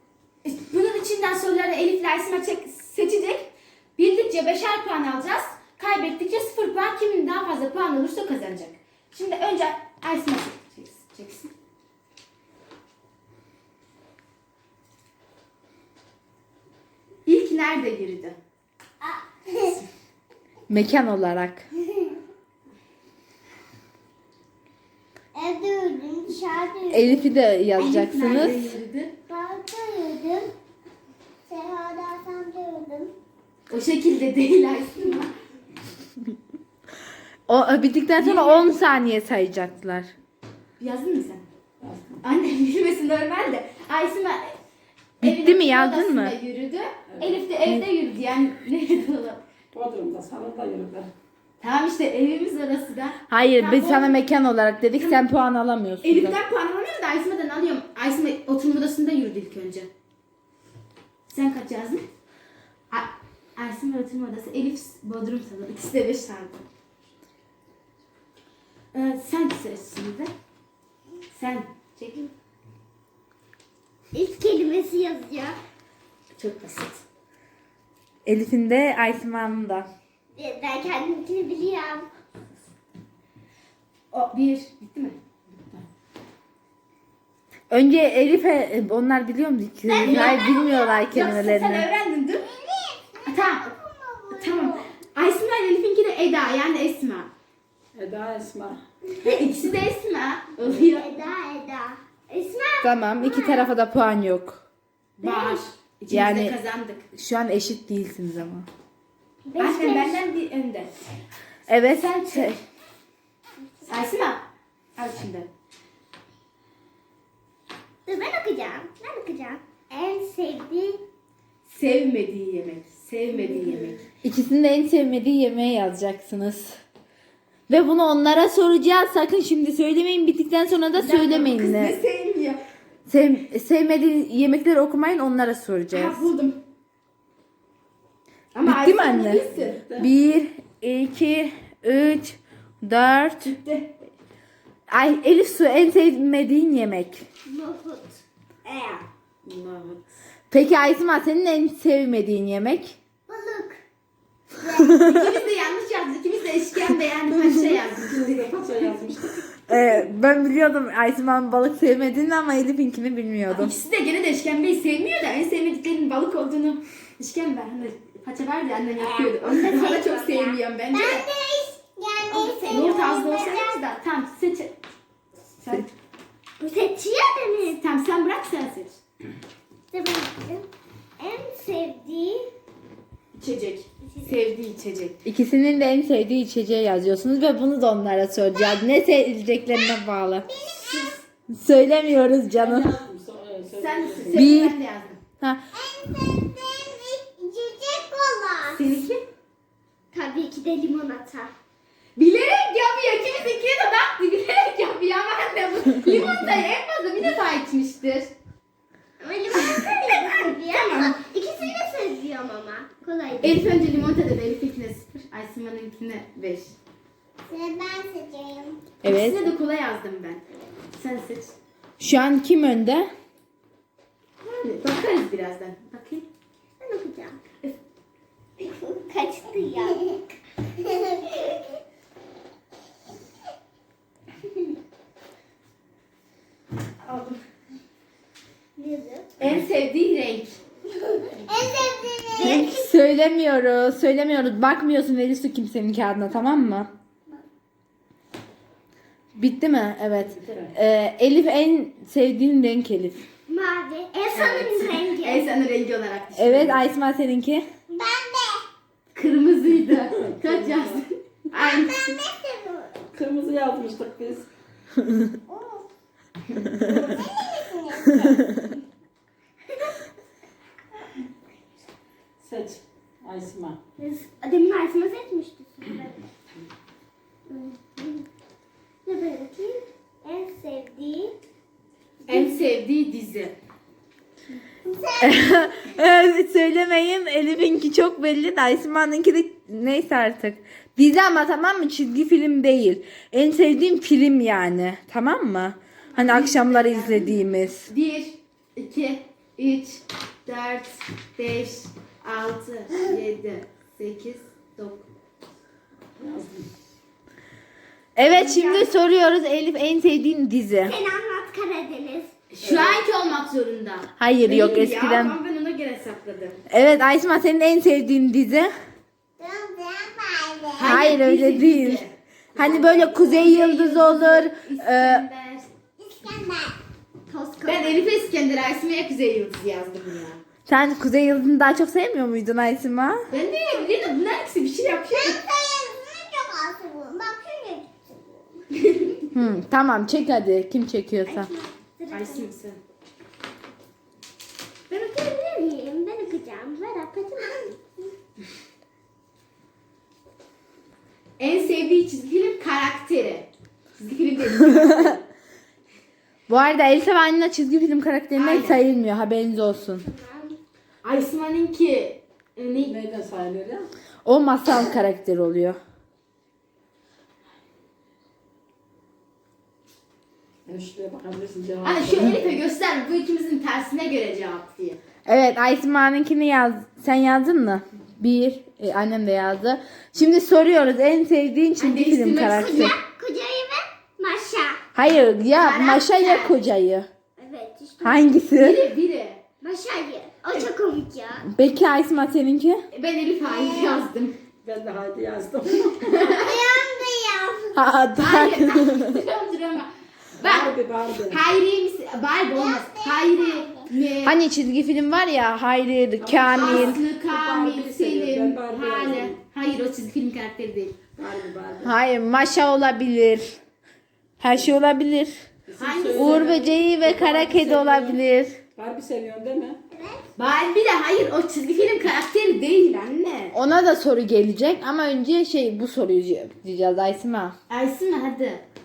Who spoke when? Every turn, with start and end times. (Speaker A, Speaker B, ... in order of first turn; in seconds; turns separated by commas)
Speaker A: 0.4-11.5, Speaker A: 17.2-18.4, Speaker B: 19.0-19.8, Speaker C: 20.7-21.7, Speaker B: 21.8-22.2, Speaker B: 25.3-27.3, Speaker C: 26.9-28.7, Speaker A: 27.8-29.1, Speaker B: 29.3-30.5, Speaker B: 31.4-33.1, Speaker A: 33.7-35.3, Speaker C: 37.5-40.1, Speaker A: 38.2-38.8, Speaker A: 40.8-41.5, Speaker D: 41.8-42.2, Speaker A: 42.2-44.5, Speaker C: 45.2-46.3, Speaker A: 45.2-49.4, Speaker D: 47.1-47.4, Speaker D: 49.7-51.1, Speaker A: 51.6-54.2, Speaker C: 53.3-56.4, Speaker A: 55.0-55.3, Speaker A: 56.0-59.9, Speaker A: 61.3-62.0, Speaker A: 62.9-66.6, Speaker A: 68.9-70.3, Speaker A: 71.3-72.3, Speaker B: 74.1-75.6, Speaker A: 76.4-77.0, Speaker C: 78.2-79.9, Speaker B: 80.3-82.1, Speaker A: 84.1-85.2, Speaker C: 87.7-91.9, Speaker B: 89.8-91.2, Speaker A: 90.0-90.4, Speaker A: 91.1-92.5, Speaker B: 92.5-94.9, Speaker A: 93.2-93.7, Speaker A: 94.3-97.3, Speaker D: 97.9-98.8, Speaker A: 99.2-101.2, Speaker B: 100.7-103.7, Speaker C: 102.8-104.6, Speaker A: 105.2-107.1, Speaker B: 105.2-105.6, Speaker C: 106.1-106.5, Speaker C: 107.1-108.7, Speaker B: 109.4-110.2, Speaker A: 109.6-111.0, Speaker C: 111.7-112.6, Speaker A: 112.0-112.5, Speaker A: 113.9-114.4, Speaker A: 115.0-115.5, Speaker B: 118.0-121.0, Speaker A: 121.6-124.0, Speaker B: 123.3-124.0, Speaker C: 124.2-126.8, Speaker C: 127.7-132.0, Speaker A: 130.9-132.6, Speaker C: 133.1-136.3, Speaker A: 135.9-136.6, Speaker A: 138.5-139.8, Speaker C: 138.6-143.6, Speaker A: 143.4-143.9, Speaker C: 144.9-147.2, Speaker B: 147.4-149.0, Speaker D: 149.4-150.0, Speaker C: 150.5-152.9, Speaker B: 153.3-153.8, Speaker B: 154.6-155.0, Speaker C: 154.8-155.3, Speaker A: 154.9-158.5, Speaker D: 157.9-159.5, Speaker C: 159.7-163.7, Speaker A: 163.5-171.2, Speaker B: 169.0-173.8, Speaker A: 172.3-174.7, Speaker A: 175.6-175.9, Speaker B: 176.6-177.8, Speaker A: 177.7-179.0, Speaker B: 179.9-180.7, Speaker B: 181.2-182.5, Speaker A: 183.3-185.2, Speaker C: 185.2-190.5, Speaker B: 190.5-191.1, Speaker A: 190.8-191.1, Speaker C: 191.5-192.9, Speaker D: 192.5-194.6, Speaker A: 193.8-195.2, Speaker C: 194.3-194.8, Speaker B: 195.7-198.8, Speaker A: 198.7-199.2, Speaker B: 200.1-201.5, Speaker A: 202.2-208.3, Speaker B: 209.2-213.6, Speaker A: 209.7-211.2, Speaker A: 213.4-216.8, Speaker B: 217.5-218.8, Speaker C: 219.0-219.5, Speaker A: 219.0-221.5, Speaker C: 222.0-223.1, Speaker A: 224.6-226.2, Speaker B: 226.8-227.4, Speaker B: 228.6-231.6, Speaker A: 237.0-237.4, Speaker B: 238.8-239.3, Speaker A: 239.4-240.6, Speaker B: 241.2-242.9, Speaker C: 242.4-246.9, Speaker A: 242.4-242.7, Speaker C: 249.3-253.2, Speaker D: 250.3-250.7, Speaker B: 253.5-255.4, Speaker A: 254.3-256.8, Speaker C: 256.4-257.6, Speaker B: 257.9-258.6, Speaker A: 259.1-262.2, Speaker D: 260.2-261.0, Speaker B: 261.5-262.9, Speaker D: 263.1-264.5, Speaker B: 265.5-265.9, Speaker B: 266.8-268.4, Speaker D: 266.8-267.2, Speaker C: 268.2-268.6, Speaker D: 272.4-273.8, Speaker B: 274.0-276.2, Speaker B: 277.5-278.2, Speaker B: 279.0-281.3, Speaker B: 282.3-282.5, Speaker A: 282.3-283.5, Speaker B: 284.9-285.8, Speaker C: 285.2-297.9, Speaker A: 296.1-305.1, Speaker D: 306.2-306.7, Speaker C: 308.1-310.9, Speaker A: 308.2-308.9, Speaker B: 310.9-312.3, Speaker A: 312.5-316.6, Speaker D: 312.6-313.0, Speaker C: 314.2-315.4, Speaker C: 316.7-318.7, Speaker B: 319.4-321.0, Speaker A: 320.8-325.7, Speaker C: 320.8-322.0, Speaker C: 322.5-325.2, Speaker B: 326.0-326.8, Speaker B: 327.3-328.2, Speaker A: 327.6-330.4, Speaker C: 330.7-333.2, Speaker A: 333.3-335.4, Speaker B: 335.1-338.6, Speaker A: 338.7-339.2, Speaker C: 339.3-341.5, Speaker B: 341.3-342.5, Speaker A: 342.1-342.8, Speaker B: 344.9-347.8, Speaker A: 351.4-355.2, Speaker C: 354.8-355.1, Speaker C: 356.5-360.0, Speaker A: 358.4-358.8, Speaker B: 360.0-360.5, Speaker A: 361.0-362.9, Speaker D: 362.8-363.9, Speaker C: 364.2-365.8, Speaker D: 370.6-372.5, Speaker A: 371.8-375.0, Speaker C: 375.2-382.9, Speaker A: 381.8-382.9, Speaker B: 382.4-384.8, Speaker C: 384.9-387.1, Speaker A: 385.5-386.6, Speaker B: 387.4-388.4, Speaker C: 388.0-388.8, Speaker A: 388.6-389.4, Speaker B: 389.6-391.5, Speaker C: 391.5-392.8, Speaker A: 392.9-394.4, Speaker B: 393.4-394.0, Speaker D: 394.6-396.1, Speaker A: 396.0-396.6, Speaker B: 396.2-397.8, Speaker C: 397.7-399.2, Speaker A: 398.2-400.7, Speaker D: 400.4-401.4, Speaker A: 401.3-404.4, Speaker B: 402.6-403.9, Speaker C: 404.2-407.0, Speaker D: 406.2-409.4, Speaker A: 406.5-411.0, Speaker D: 411.1-411.9, Speaker C: 411.8-413.6, Speaker C: 414.4-415.4, Speaker D: 415.7-418.2, Speaker A: 415.8-416.6, Speaker C: 416.1-418.6, Speaker D: 418.7-419.8, Speaker B: 419.9-420.2, Speaker A: 420.4-423.5, Speaker C: 423.5-427.5, Speaker A: 427.7-428.6